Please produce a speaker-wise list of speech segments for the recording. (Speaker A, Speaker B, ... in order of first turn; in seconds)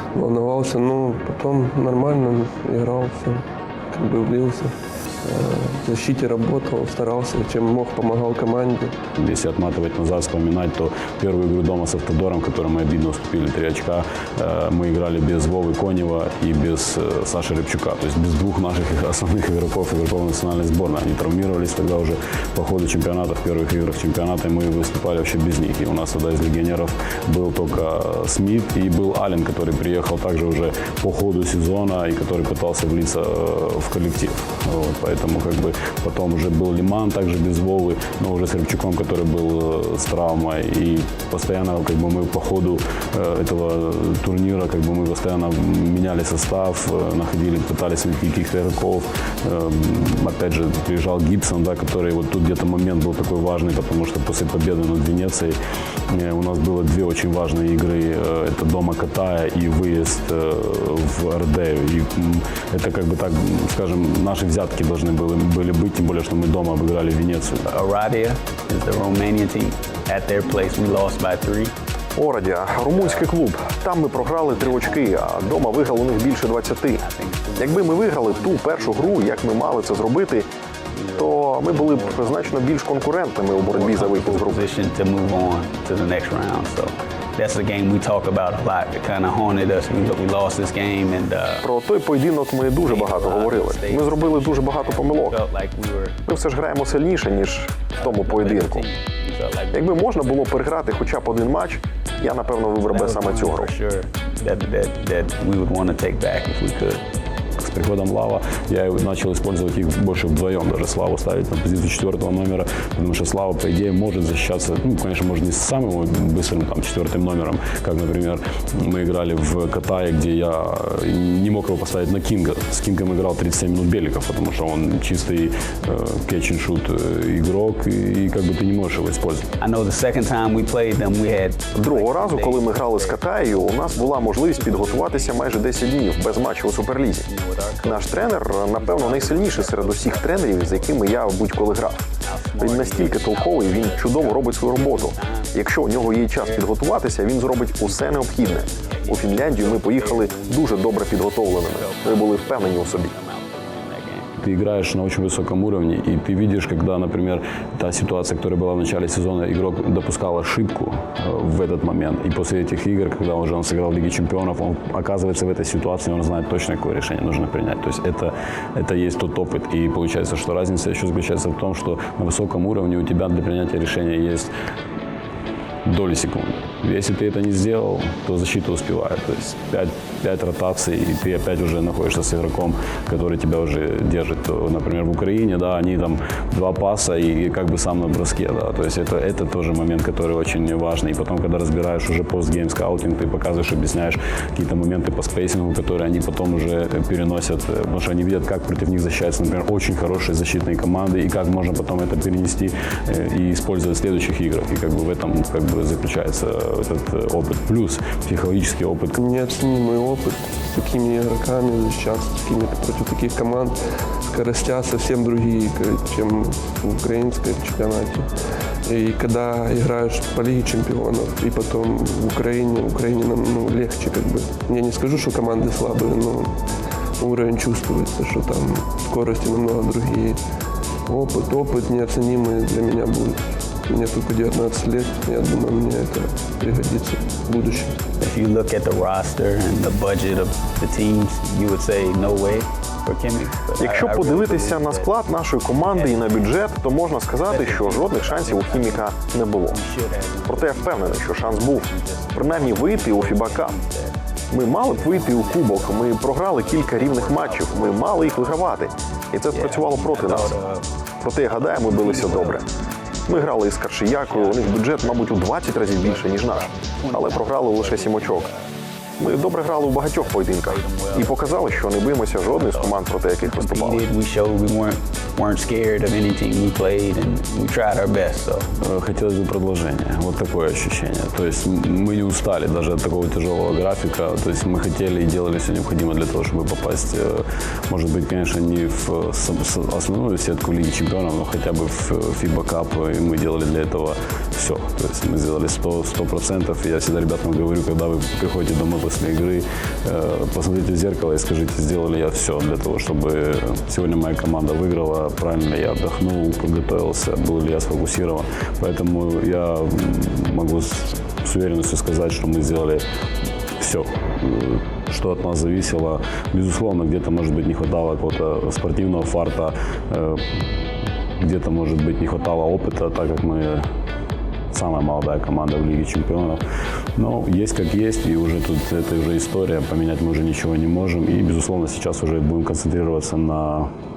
Speaker A: 0.1-9.0, 209.2-218.3, 218.9-226.6, 227.2-230.4, 231.1-237.9
Speaker B: 9.2-55.5, 56.1-67.7, 107.6-129.5, 154.4-174.5, 175.8-209.2, 278.8-313.0, 313.8-320.7, 321.4-323.9, 324.7-326.6, 327.1-333.9
Speaker C: 67.7-71.7, 72.8-73.3, 74.3-75.9, 76.9-80.2, 80.9-91.6, 92.8-96.2, 97.9-101.4, 102.2-107.0, 129.6-141.3, 142.2-146.9, 147.4-154.3, 238.2-245.1, 245.7-246.6, 247.3-249.1, 249.7-258.6, 259.5-260.9, 261.4-262.7, 263.3-268.7, 269.4-278.7
Speaker D: 72.2-77.0, 77.6-80.5, 81.2-84.7, 91.6-95.4, 96.2-98.8, 99.7-103.7, 131.7-137.3, 137.8-142.0, 142.6-153.1, 243.8-249.8, 250.5-253.7, 254.5-260.6, 261.2-262.6, 263.3-268.5, 269.2-274.1